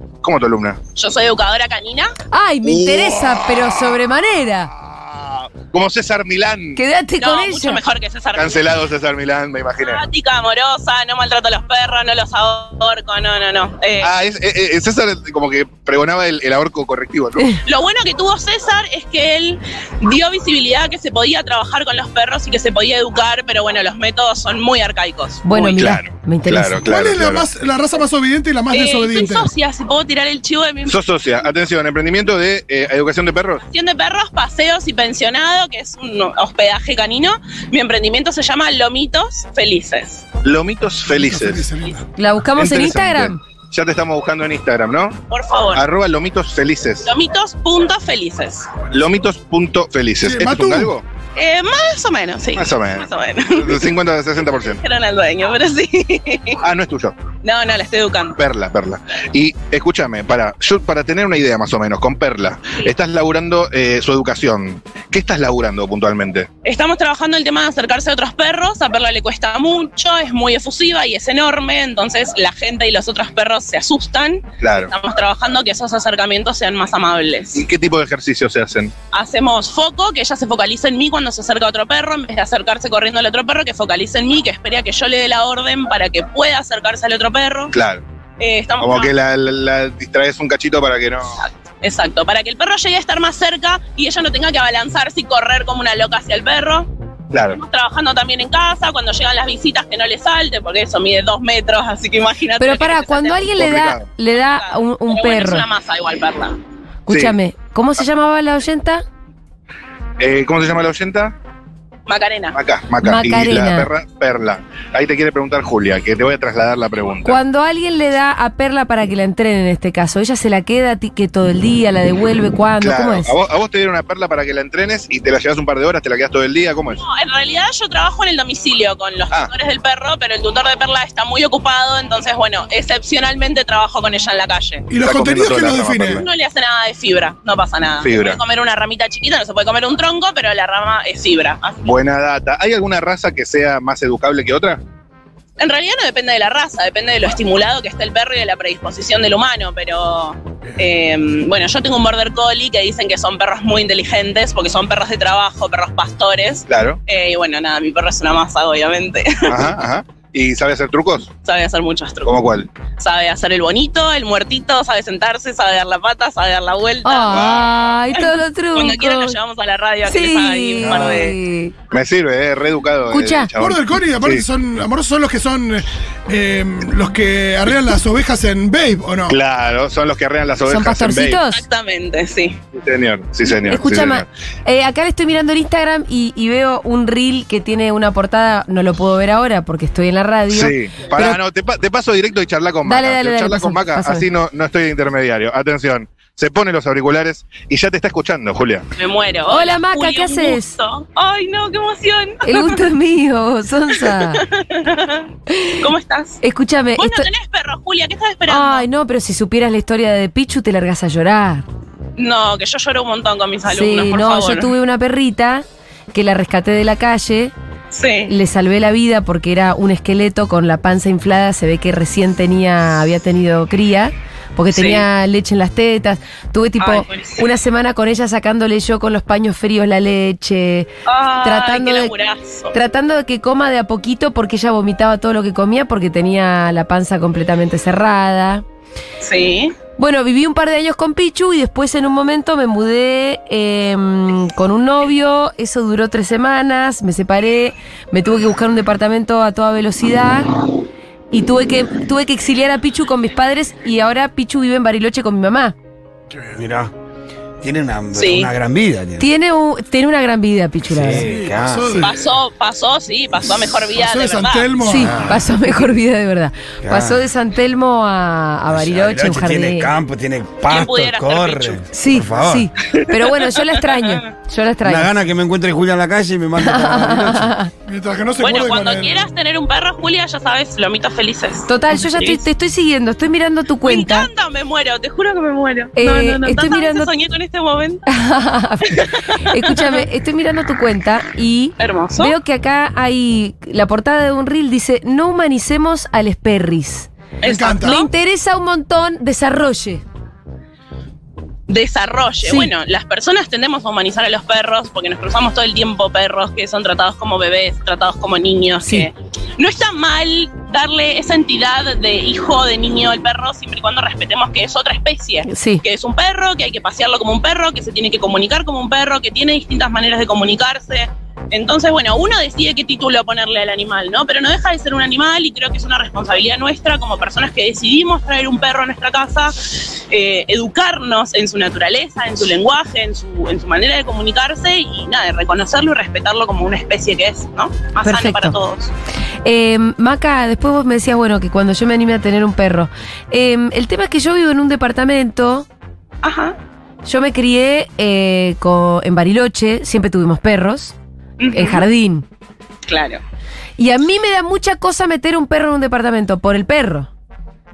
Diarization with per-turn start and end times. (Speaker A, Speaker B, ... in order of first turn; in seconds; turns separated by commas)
Speaker A: 0.2-0.8, Speaker B: 0.9-2.1, Speaker C: 2.3-4.7, Speaker A: 2.6-3.9, Speaker A: 4.9-6.8, Speaker C: 6.8-7.8, Speaker B: 7.2-8.7, Speaker A: 8.3-10.0, Speaker B: 9.8-14.1, Speaker A: 14.0-17.5, Speaker B: 17.6-25.8, Speaker C: 25.4-26.8, Speaker A: 25.8-27.4, Speaker D: 26.8-29.5, Speaker B: 28.7-31.0, Speaker A: 30.9-33.6, Speaker B: 33.7-40.2, Speaker A: 40.4-41.7, Speaker D: 41.1-42.0, Speaker C: 42.2-43.4, Speaker A: 42.5-45.2, Speaker B: 45.3-45.8, Speaker A: 45.7-47.1, Speaker B: 47.0-48.7, Speaker A: 48.9-51.0, Speaker D: 50.2-50.9, Speaker B: 51.4-54.0, Speaker A: 52.5-54.8, Speaker B: 54.6-56.6, Speaker A: 56.6-57.2, Speaker B: 57.4-58.4, Speaker A: 58.4-66.5, Speaker B: 66.6-77.6, Speaker A: 74.6-74.9, Speaker A: 77.5-78.9, Speaker B: 79.1-87.7, Speaker A: 87.7-88.0, Speaker B: 88.4-89.1, Speaker A: 88.8-91.4, Speaker B: 91.4-96.9, Speaker A: 97.3-97.6, Speaker B: 97.5-103.5, Speaker C: 102.6-105.7, Speaker A: 103.6-104.0, Speaker B: 104.5-106.6, Speaker C: 107.0-109.0, Speaker A: 107.1-107.3, Speaker A: 110.2-111.3, Speaker B: 112.1-112.6, Speaker A: 112.5-117.4, Speaker C: 113.0-113.9, Speaker C: 117.2-123.3, Speaker A: 122.8-127.0, Speaker B: 127.0-134.9, Speaker D: 134.9-136.2, Speaker A: 134.9-136.2, Speaker B: 136.2-141.9, Speaker A: 138.0-138.4, Speaker A: 141.8-144.8, Speaker B: 145.6-159.7, Speaker A: 156.7-157.0, Speaker A: 159.5-161.3, Speaker B: 161.4-162.4, Speaker A: 162.2-162.7, Speaker B: 163.0-171.4, Speaker C: 167.0-169.4, Speaker A: 167.3-167.7, Speaker C: 170.1-171.7, Speaker A: 171.9-174.4, Speaker C: 173.1-173.5, Speaker D: 173.6-179.3, Speaker A: 179.3-181.4, Speaker C: 180.7-181.6, Speaker B: 181.5-182.6, Speaker A: 182.7-184.2, Speaker C: 183.7-191.4, Speaker A: 190.5-198.8, Speaker C: 192.8-194.2, Speaker B: 198.9-202.8, Speaker C: 199.5-200.8, Speaker C: 202.4-204.4, Speaker B: 204.2-205.3, Speaker B: 205.8-206.4, Speaker C: 206.4-207.3, Speaker B: 207.0-208.9, Speaker C: 208.5-211.6, Speaker B: 212.2-214.7, Speaker C: 213.7-217.5, Speaker B: 217.9-218.3, Speaker C: 218.3-230.9, Speaker B: 224.7-225.1, Speaker B: 226.8-227.5, Speaker B: 231.1-232.7, Speaker C: 231.4-232.1, Speaker C: 232.7-238.6, Speaker B: 239.2-239.7, Speaker C: 240.0-250.5, Speaker C: 251.3-255.7, Speaker E: 256.6-256.9, Speaker E: 257.6-259.3, Speaker B: 258.1-258.5, Speaker C: 259.2-261.3, Speaker E: 260.8-262.1, Speaker D: 261.2-262.1, Speaker B: 262.0-264.9, Speaker D: 263.9-265.3, Speaker C: 264.9-269.9, Speaker E: 265.1-265.4, Speaker E: 266.8-267.2, Speaker E: 268.7-272.7, Speaker B: 270.7-271.8, Speaker C: 271.9-275.1, Speaker E: 274.8-277.5, Speaker C: 276.6-277.7, Speaker D: 277.9-279.3, Speaker B: 278.4-282.4, Speaker C: 281.7-284.3, Speaker B: 283.8-288.0, Speaker C: 285.9-287.1, Speaker C: 288.1-300.0, Speaker B: 288.9-290.0, Speaker B: 291.8-292.3, Speaker B: 297.4-298.1, Speaker D: 297.4-298.0, Speaker B: 301.7-338.9, Speaker C: 302.4-302.7, Speaker C: 308.8-309.1, Speaker C: 315.5-315.8, Speaker C: 338.0-338.6, Speaker C: 339.4-345.6, Speaker B: 346.2-346.6, Speaker C: 347.0-350.9, Speaker B: 351.4-351.8, Speaker C: 351.5-352.2, Speaker B: 352.9-353.2, Speaker C: 353.8-357.1